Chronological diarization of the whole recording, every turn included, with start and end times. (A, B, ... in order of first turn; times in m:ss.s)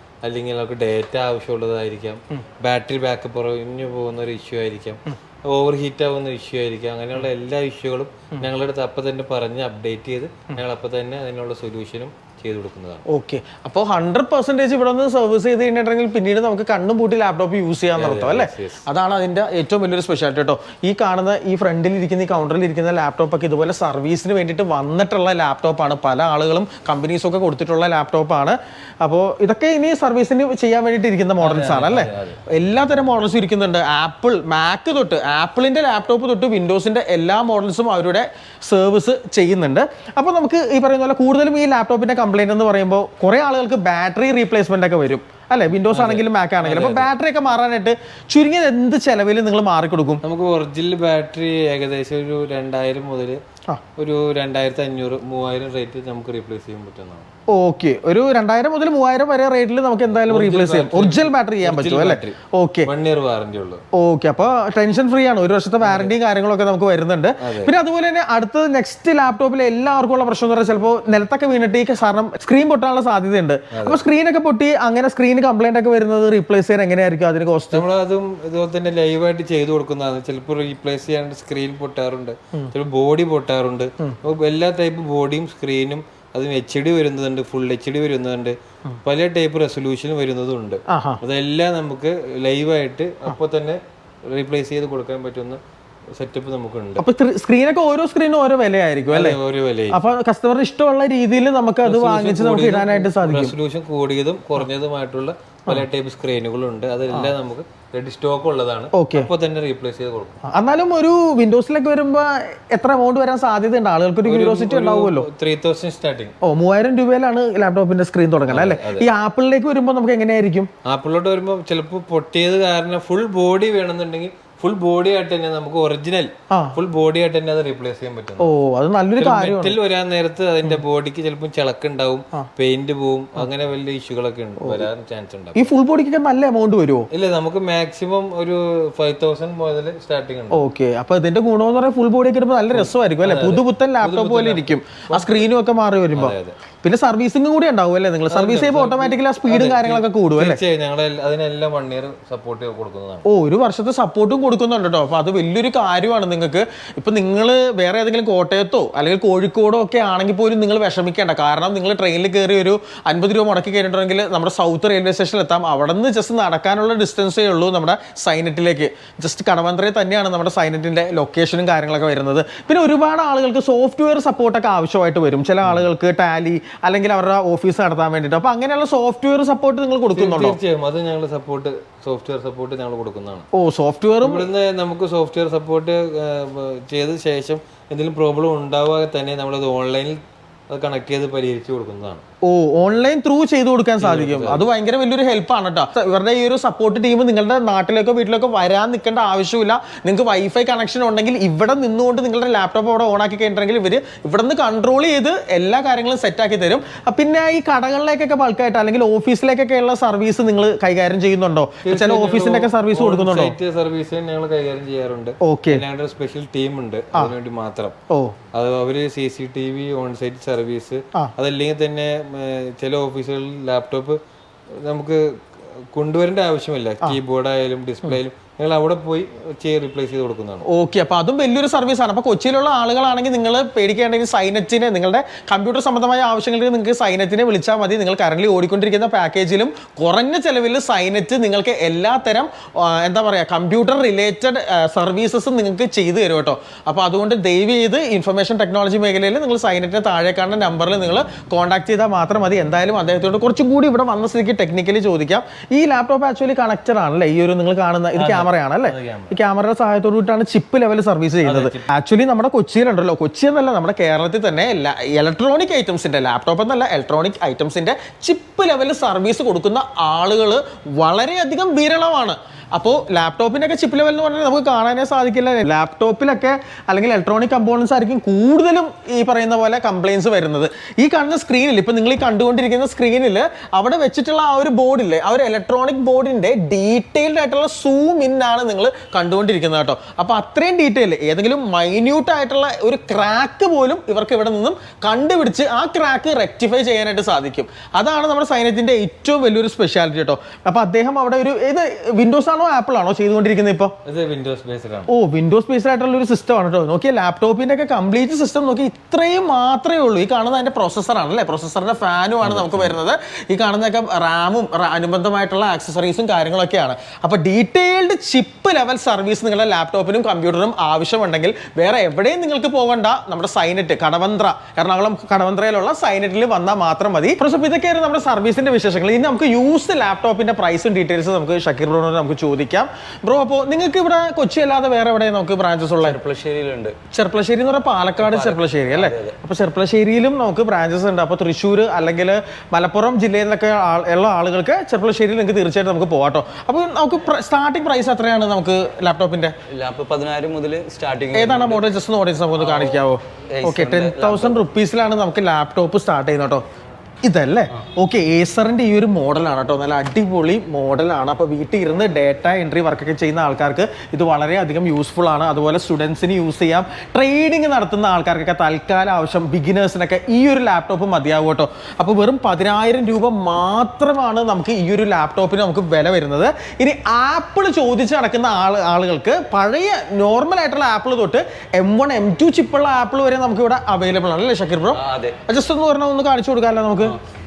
0:00.2-0:13.0 A
0:13.1-0:50.2 B
0:18.0-0:18.8 A
0:31.4-0:32.4 A
0:45.8-0:47.1 A
0:50.2-0:53.4 A
0:54.0-0:57.3 A
0:57.5-1:02.9 B
1:00.2-1:03.8 A
1:03.9-1:17.8 B
1:05.8-1:06.2 A
1:07.4-1:07.7 A
1:13.7-1:14.0 A
1:17.7-1:35.6 A
1:30.9-1:31.2 B
1:36.2-1:37.0 A
1:37.0-1:39.4 B
1:39.1-1:40.1 A
1:39.9-1:43.6 B
1:41.8-1:50.4 A
1:48.9-1:49.3 B
1:50.5-1:55.3 B
1:54.2-1:56.4 A
1:56.4-2:00.7 B
1:58.5-1:59.1 A
2:00.8-2:08.5 A
2:06.5-2:06.8 B
2:08.4-2:09.8 B
2:09.2-2:15.7 A
2:14.6-2:14.9 B
2:15.6-2:17.1 B
2:17.1-2:20.6 A
2:20.5-2:30.6 B
2:22.7-2:25.4 A
2:26.1-2:26.6 A
2:28.3-2:33.3 A
2:33.2-3:00.6 B
2:55.6-2:55.9 A
3:00.1-3:03.5 A
3:03.5-3:04.5 B
3:04.2-3:12.2 A
3:12.4-3:33.6 B
3:14.0-3:14.7 A
3:31.8-3:38.0 A
3:35.4-3:35.8 B
3:38.1-3:38.4 B
3:38.5-3:44.2 A
3:44.8-3:45.2 A
3:45.9-3:50.7 A
3:50.7-5:03.9 B
4:18.1-4:19.4 A
4:21.4-4:21.9 A
5:04.0-5:05.1 A
5:05.1-5:36.2 B
5:12.4-5:13.0 A
5:36.0-5:37.0 C
5:37.1-5:49.6 B
5:38.2-5:39.4 C
5:49.7-5:51.9 C
5:51.3-5:56.6 B
5:52.6-5:54.6 C
5:57.2-6:27.2 B
6:24.9-6:25.4 C